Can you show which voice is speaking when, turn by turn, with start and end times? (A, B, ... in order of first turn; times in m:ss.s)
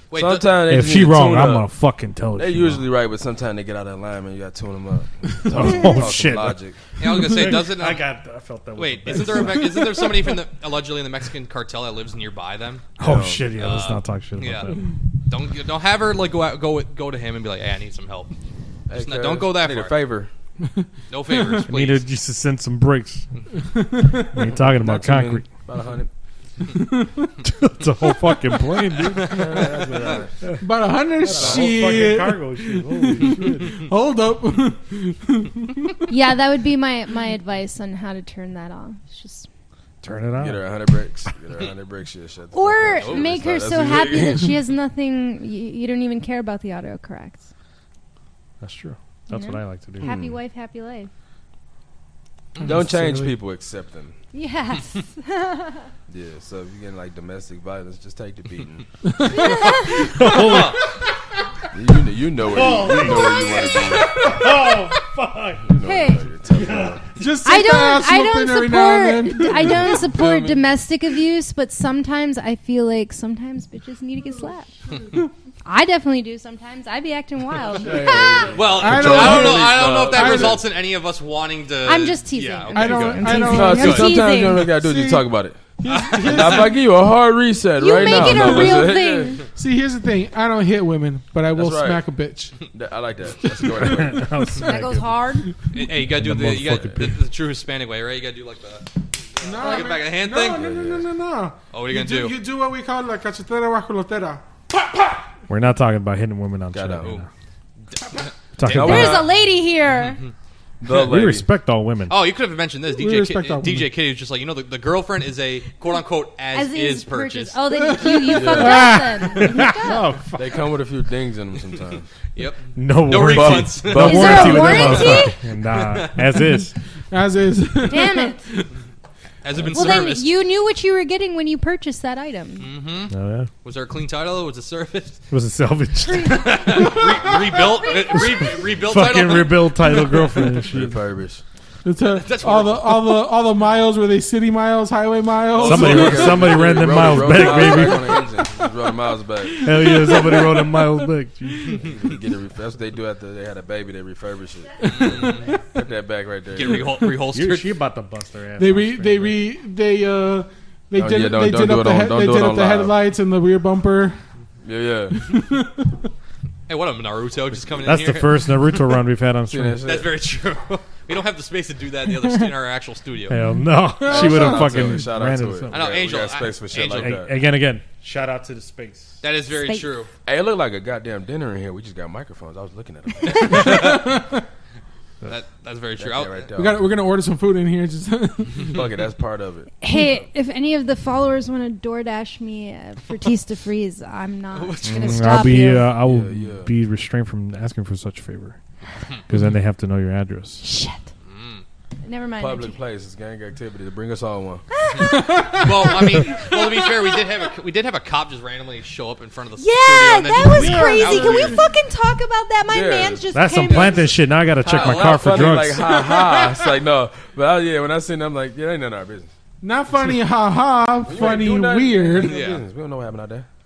0:00.1-0:00.6 A
0:00.1-0:01.7 B
0:00.7-0:02.9 C
0:02.4-0:06.8 B
0:05.4-0:10.0 C
0:07.0-0:08.0 A
0:08.8-0:12.9 A
0:13.0-0:14.8 C
0:13.0-0:13.5 B
0:13.5-0:14.8 A
0:15.3-0:18.3 A
0:18.9-0:20.3 B
0:18.9-0:20.0 A
0:21.1-0:22.0 A
0:21.7-0:23.3 C
0:23.7-0:24.4 D
0:24.2-0:25.5 C
0:24.6-0:26.1 B
0:26.7-0:27.4 D
0:27.4-0:30.6 C
0:29.1-0:30.3 B
0:30.6-0:36.1 D
0:31.2-0:33.8 C
0:31.4-0:32.1 B
0:36.1-0:39.5 E
0:40.0-0:40.7 C
0:40.4-0:44.5 B
0:42.5-0:47.5 E
0:42.9-0:43.3 A
0:48.6-0:50.1 C
0:49.3-0:51.1 E
0:50.0-0:50.4 B
0:52.6-0:54.2 B
0:52.6-0:53.3 C
0:54.3-0:55.9 E
0:56.1-0:58.9 B
0:59.0-1:00.9 D
0:59.2-1:00.1 E
1:00.0-1:00.8 C
1:00.3-1:00.8 A
1:01.7-1:04.2 B
1:02.5-1:05.7 C
1:04.0-1:04.4 D
1:05.6-1:07.1 B
1:05.8-1:06.3 E
1:06.5-1:07.2 C
1:07.2-1:10.0 D
1:07.4-1:14.7 E
1:09.9-1:10.6 B
1:15.6-1:18.6 E
1:17.7-1:20.6 B
1:18.5-1:23.5 A
1:18.6-1:20.6 D
1:21.9-1:24.7 E
1:22.7-1:25.2 D
1:23.5-1:25.6 B
1:25.8-1:26.8 D
1:25.9-1:26.7 A
1:26.2-1:29.4 B
1:27.8-1:29.4 E
1:28.1-1:28.8 D
1:29.5-1:32.6 D
1:31.5-1:32.0 B
1:32.6-1:34.3 B
1:33.6-1:34.1 D
1:33.8-1:35.1 C
1:34.6-1:35.5 E
1:35.7-1:40.6 A
1:35.8-1:37.3 C
1:39.4-1:44.4 D
1:39.6-1:39.9 E
1:40.5-1:41.1 B
1:41.7-1:42.4 A
1:45.5-1:47.3 C
1:46.7-1:47.2 B
1:47.9-1:49.2 A
1:48.6-1:49.3 C
1:48.7-1:49.3 B
1:48.8-1:50.2 E
1:50.8-1:51.5 B
1:50.9-1:52.2 C
1:52.1-1:57.6 A
1:52.9-1:53.9 D
1:56.5-2:00.1 E
1:57.7-1:59.7 D
1:58.3-1:59.0 B
1:59.4-2:00.6 C
2:00.4-2:02.1 B
2:02.4-2:06.2 A
2:02.8-2:06.7 C
2:03.1-2:05.3 B
2:04.0-2:05.4 E
2:07.1-2:08.7 D
2:07.8-2:08.5 E
2:09.4-2:10.3 A
2:09.7-2:12.7 E
2:12.6-2:13.1 A
2:13.1-2:13.5 C
2:13.6-2:15.2 A
2:15.3-2:16.8 C
2:16.0-2:16.8 E
2:16.2-2:19.8 A
2:16.7-2:17.4 D
2:18.1-2:21.0 C
2:20.7-2:21.4 B
2:21.8-2:26.5 D
2:22.1-2:23.3 A
2:25.5-2:30.2 B
2:25.6-2:28.3 C
2:25.9-2:26.6 A
2:29.6-2:31.9 C
2:29.6-2:31.1 D
2:31.8-2:36.9 B
2:34.8-2:35.5 A
2:36.5-2:37.7 A
2:37.3-2:39.4 C
2:38.6-2:44.2 D
2:41.0-2:43.0 B
2:44.6-2:45.2 B
2:45.1-2:46.0 D
2:46.7-2:48.5 A
2:47.8-2:49.8 C
2:49.5-2:50.1 B
2:49.8-2:53.4 A
2:53.3-2:55.9 C
2:54.0-2:55.0 D
2:54.1-2:57.4 B
2:55.7-2:57.2 A
2:56.8-2:59.2 C
2:59.2-3:00.1 A
2:59.6-2:59.9 E
3:00.3-3:04.0 B
3:03.4-3:04.0 A
3:03.4-3:04.4 D
3:05.3-3:06.5 A
3:06.0-3:06.9 B
3:06.6-3:08.8 D
3:08.6-3:09.7 B
3:09.8-3:15.9 E
3:14.5-3:15.5 A
3:14.8-3:18.6 C
3:16.0-3:16.7 B
3:19.3-3:20.6 C
3:20.6-3:21.1 E
3:21.2-3:21.6 A
3:22.0-3:22.8 E
3:22.4-3:24.7 B
3:24.7-3:25.6 E
3:25.0-3:26.6 D
3:25.6-3:31.6 A
3:26.5-3:26.9 E
3:29.6-3:34.1 E
3:30.4-3:31.6 D
3:32.7-3:39.3 B
3:33.3-3:36.0 C
3:34.6-3:35.6 A
3:36.0-3:36.5 D
3:39.6-3:42.4 D
3:41.0-3:43.5 B
3:42.2-3:42.6 A